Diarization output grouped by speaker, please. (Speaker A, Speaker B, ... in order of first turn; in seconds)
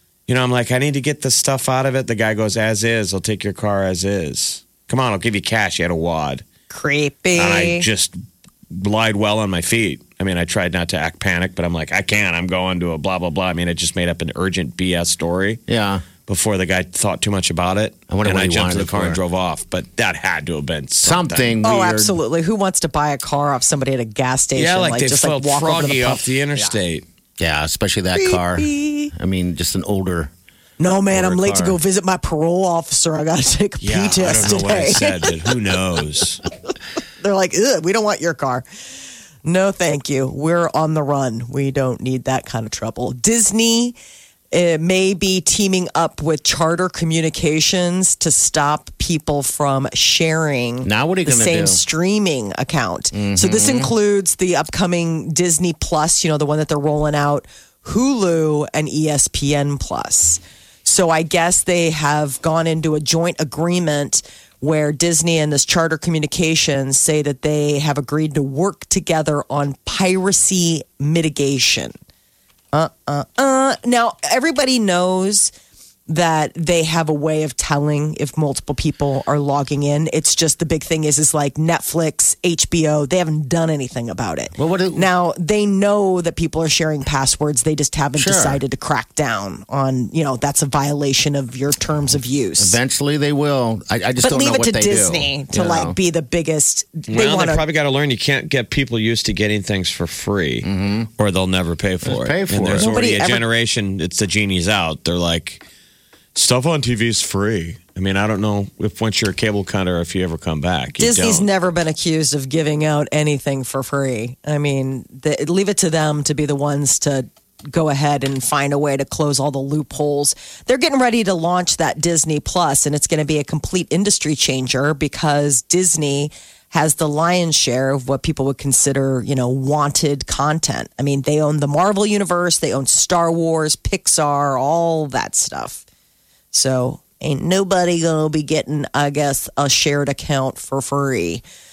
Speaker A: 0.3-6.4, 7.3-8.2, 8.7-15.6, 16.2-21.6, 24.6-27.0, 33.8-36.4, 97.1-105.6, 106.3-111.5
Speaker B: 6.7-7.8, 21.6-26.2, 28.1-29.1, 30.8-35.3, 37.2-38.6, 39.4-44.0, 44.5-71.9, 72.7-75.5, 76.1-92.8, 94.2-97.6, 102.8-103.5, 111.0-135.8, 136.5-141.4
Speaker C: 15.7-16.0, 18.1-19.2, 21.0-22.1, 27.4-30.3, 31.1-31.7, 50.8-51.8, 53.1-53.9, 84.5-85.1, 88.2-88.6, 92.6-96.0, 100.6-101.1, 102.0-102.9